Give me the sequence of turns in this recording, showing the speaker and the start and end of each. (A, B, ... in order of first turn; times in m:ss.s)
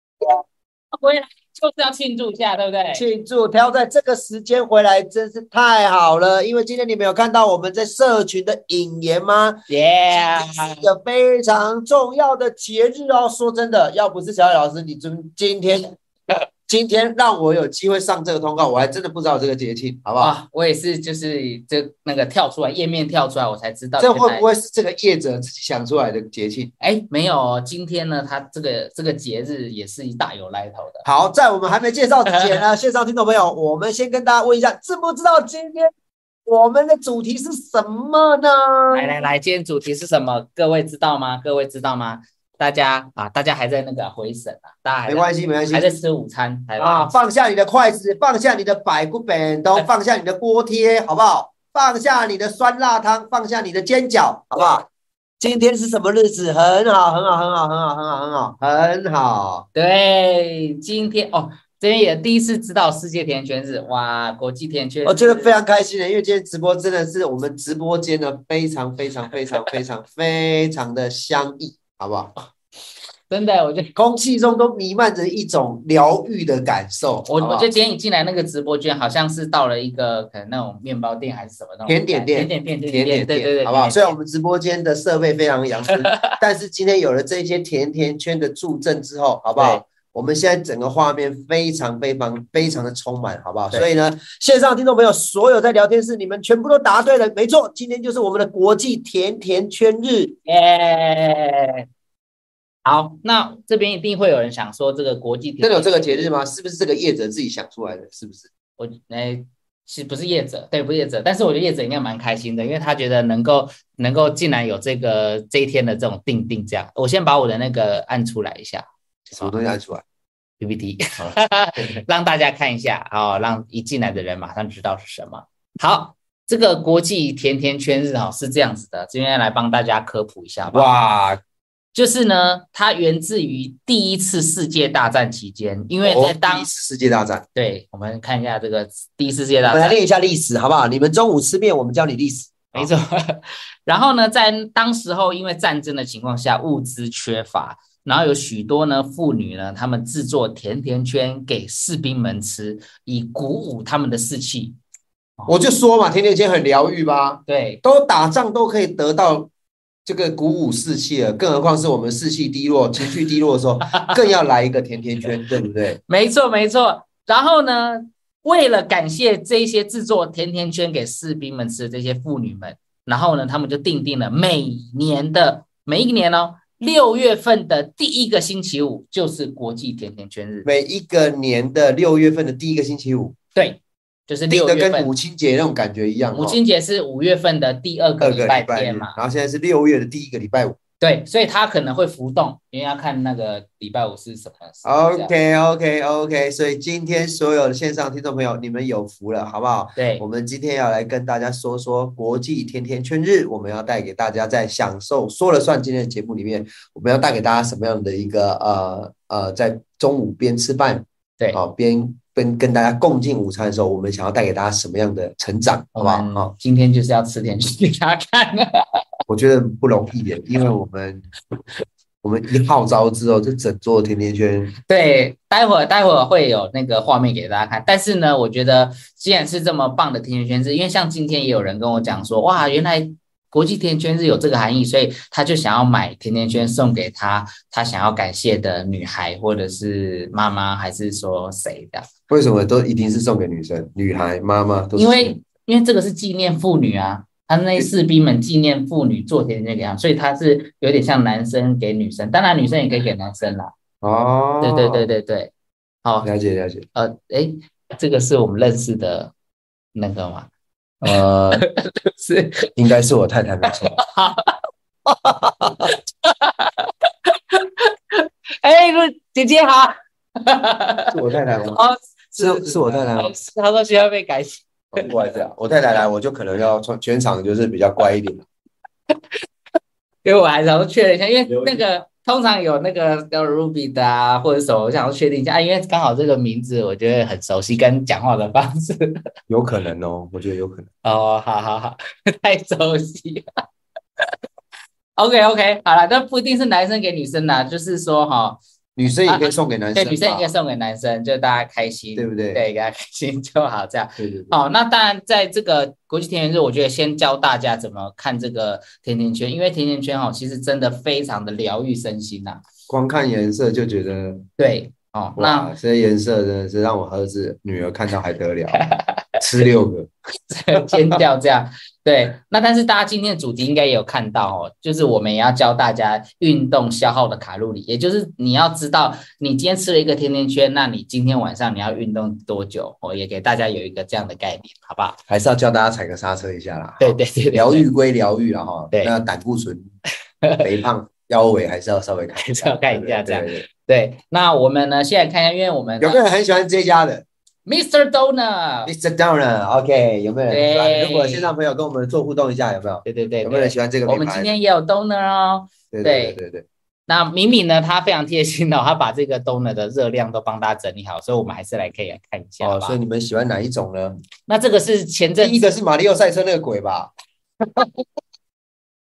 0:00.9-0:03.0 A
0:02.9-0:15.9 B
0:09.7-0:10.9 A
0:16.7-0:20.3 B
0:20.2-0:24.5 A
0:24.0-0:26.7 B
0:26.8-0:31.0 A
0:31.0-0:35.9 B
0:36.5-0:39.2 B
0:38.9-0:47.2 A
0:45.1-0:45.9 B
0:46.8-0:54.9 B
0:55.4-0:59.7 B
0:59.8-1:05.5 A
1:05.0-1:12.3 B
1:13.3-1:13.9 A
1:14.0-1:17.7 B
1:17.3-1:24.2 A
1:21.9-1:40.3 B
1:26.1-1:26.4 A
1:29.6-1:29.8 A
1:40.5-1:41.9 A
1:42.8-1:46.3 A
1:45.6-1:48.5 B
1:48.8-1:59.6 A
1:59.3-2:00.0 B
2:00.6-2:10.9 A
2:01.2-2:01.9 B
2:10.7-2:11.4 B
2:11.9-2:16.7 A
2:16.0-2:17.5 B
2:17.6-2:20.0 A
2:19.7-2:22.9 B
2:22.7-2:34.8 A
2:35.5-2:39.5 B
2:37.5-2:37.8 A
2:40.1-2:46.0 B
2:43.9-2:44.2 A
2:46.1-3:00.7 A
3:00.6-3:03.4 B
3:03.6-3:05.1 A
3:04.5-3:06.6 B
3:06.4-3:09.2 A
3:08.2-3:10.8 B
3:11.0-3:15.3 A
3:14.8-3:36.5 B
3:20.0-3:20.2 A
3:36.0-3:38.8 A
3:39.3-3:41.3 B
3:42.2-3:44.7 B
3:44.9-4:02.1 A
4:02.3-4:05.4 B
4:05.0-4:13.7 A
4:14.0-4:15.1 B
4:14.6-4:15.5 A
4:16.0-4:16.3 A
4:16.2-4:16.8 B
4:16.9-4:19.3 A
4:20.0-4:20.5 A
4:21.0-4:22.7 A
4:21.0-4:21.6 B
4:22.8-4:24.0 B
4:23.7-4:24.6 A
4:25.2-4:25.9 B
4:25.8-4:31.2 A
4:31.1-4:31.8 B
4:31.7-4:35.1 A
4:32.4-4:33.3 B
4:34.9-4:38.4 B
4:40.2-4:49.2 A
4:49.5-4:50.9 B
4:51.0-4:53.5 A
4:55.2-4:58.6 A
4:59.0-5:00.5 B
4:59.2-5:12.6 A
5:02.2-5:02.6 B
5:04.2-5:04.5 B
5:12.9-5:14.5 B
5:14.6-5:15.7 A
5:15.4-5:18.8 B
5:18.7-5:19.4 A
5:19.4-5:20.1 B
5:20.5-5:35.2 A
5:20.8-5:21.2 B
5:35.3-5:39.9 B
5:37.0-5:37.9 A
5:40.6-5:43.6 B
5:42.4-5:46.2 A
5:46.0-5:47.2 B
5:47.7-5:48.9 A
5:48.9-5:54.5 B
5:50.5-5:51.5 A
5:53.0-5:56.4 A
5:55.9-5:56.7 B
5:57.1-6:03.0 A
6:02.6-6:04.2 B
6:04.5-6:05.7 A
6:05.4-6:07.1 B